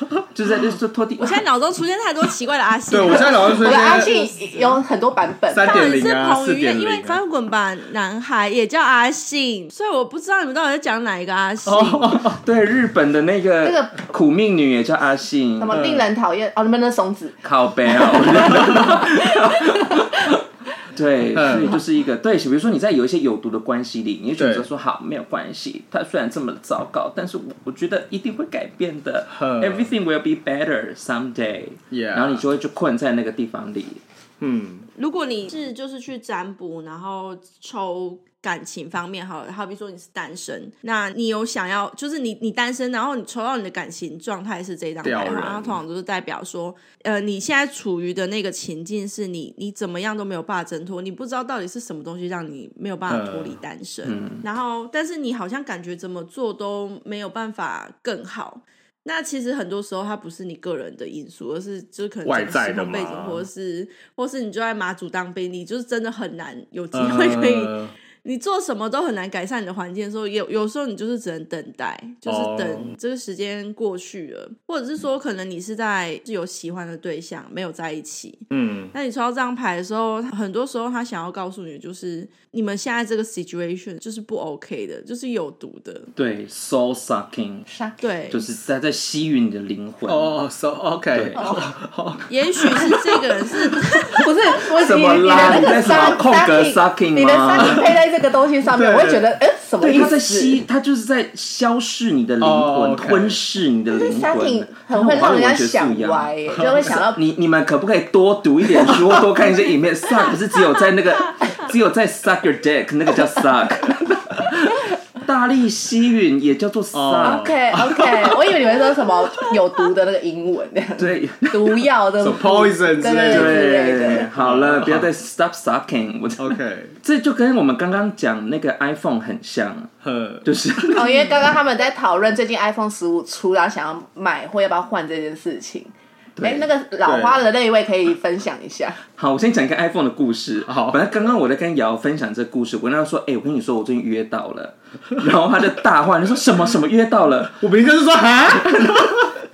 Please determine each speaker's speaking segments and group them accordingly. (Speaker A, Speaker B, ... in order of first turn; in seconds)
Speaker A: 0.3-1.4, 12.2-15.8, 17.4-34.0, 54.0-54.4, 86.2-87.7, 88.3-90.4, 91.1-91.4, 94.7-98.0, 99.8-117.5, 121.0-121.8, 123.3-129.9, 130.4-131.4, 136.4-136.7, 139.2-147.7, 148.5-149.3
Speaker B: 1.2-4.7, 5.6-12.2, 35.0-86.1, 88.0-88.4, 92.3-94.2
Speaker C: 2.9-4.1, 5.5-7.2, 11.6-12.4, 15.7-16.1, 21.3-21.8, 24.4-24.7, 29.3-29.9, 31.9-32.4, 34.4-34.9, 45.0-45.8, 53.1-53.6, 62.2-63.5, 66.9-67.9, 72.3-72.9, 78.5-78.9, 90.1-93.1, 95.4-95.7, 98.7-99.2, 102.4-103.4, 116.9-118.0, 122.2-125.1, 126.4-127.0, 130.0-131.0, 137.0-137.5, 140.7-141.0, 147.6-149.2
Speaker D: 3.3-6.0, 13.6-13.9, 15.6-20.0, 87.7-88.0, 91.3-91.7, 94.1-100.6, 103.9-107.2, 117.2-124.3, 130.9-139.0